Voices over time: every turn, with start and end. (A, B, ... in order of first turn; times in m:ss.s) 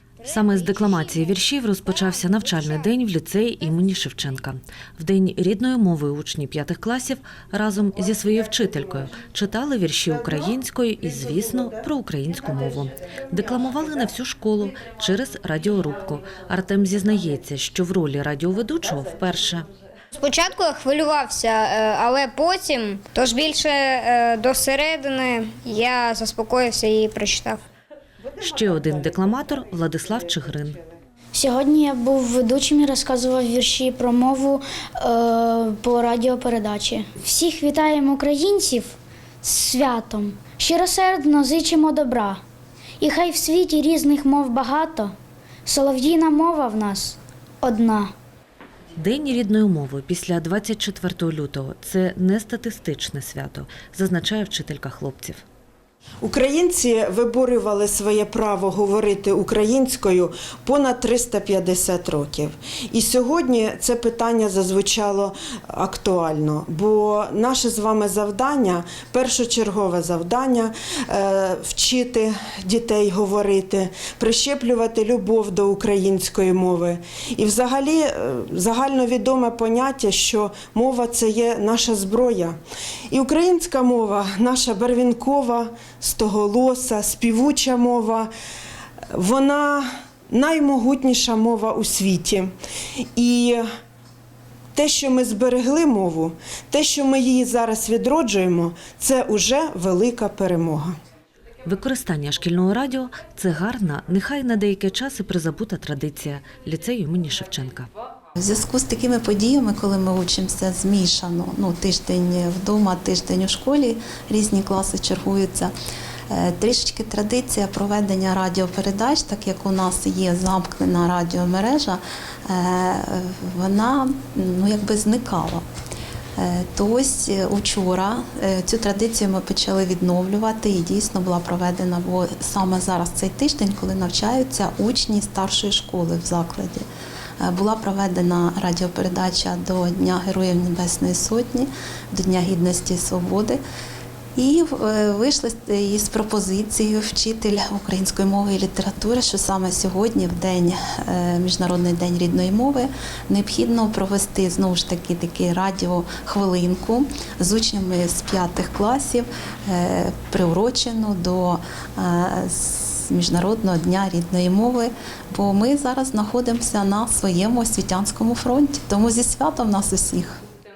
0:00.2-0:01.3 A
0:00.2-0:19.7 B
0:02.0-0:02.8 A
0:20.1-0:27.6 A
0:28.4-0:30.8 B
0:31.3-0:42.4 C
0:43.0-0:45.1 C
0:45.6-0:48.1 C
0:49.0-0:55.4 B
0:56.2-1:22.6 D
1:23.1-1:28.3 D
1:29.1-1:32.5 D
1:33.2-1:33.6 D
1:34.7-1:40.9 D
1:41.6-1:47.9 B
1:48.4-1:55.7 E
1:56.3-2:05.6 E
2:06.4-2:16.8 E
2:17.4-2:23.6 E
2:24.4-2:50.4 E